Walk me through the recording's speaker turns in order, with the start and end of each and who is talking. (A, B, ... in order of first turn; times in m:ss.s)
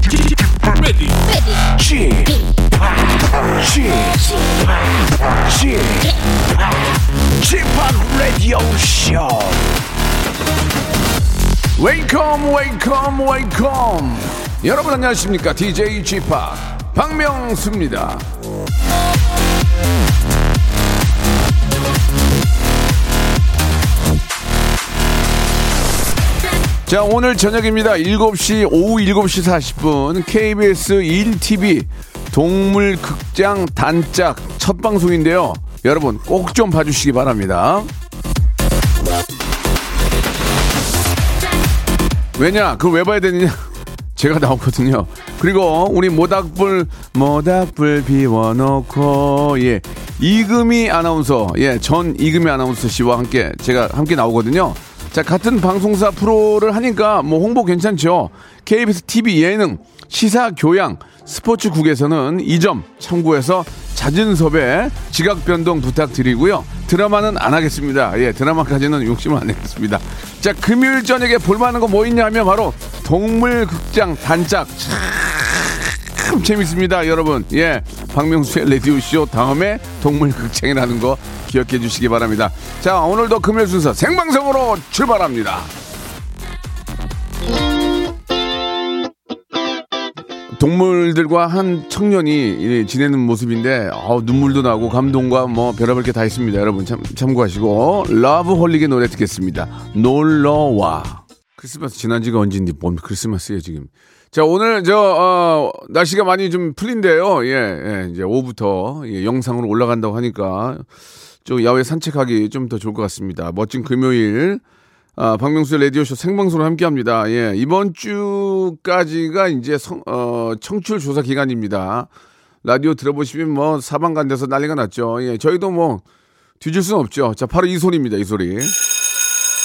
0:07.4-0:09.6 A
0:11.8-0:18.3 A
0:26.9-0:37.9 A
0:42.4-0:43.6 A
0:44.2-1:25.7 A
1:30.5-1:50.9 A
1:51.4-1:54.6 A
1:55.2-2:02.1 A
2:02.6-2:06.0 A
2:06.6-2:08.8 A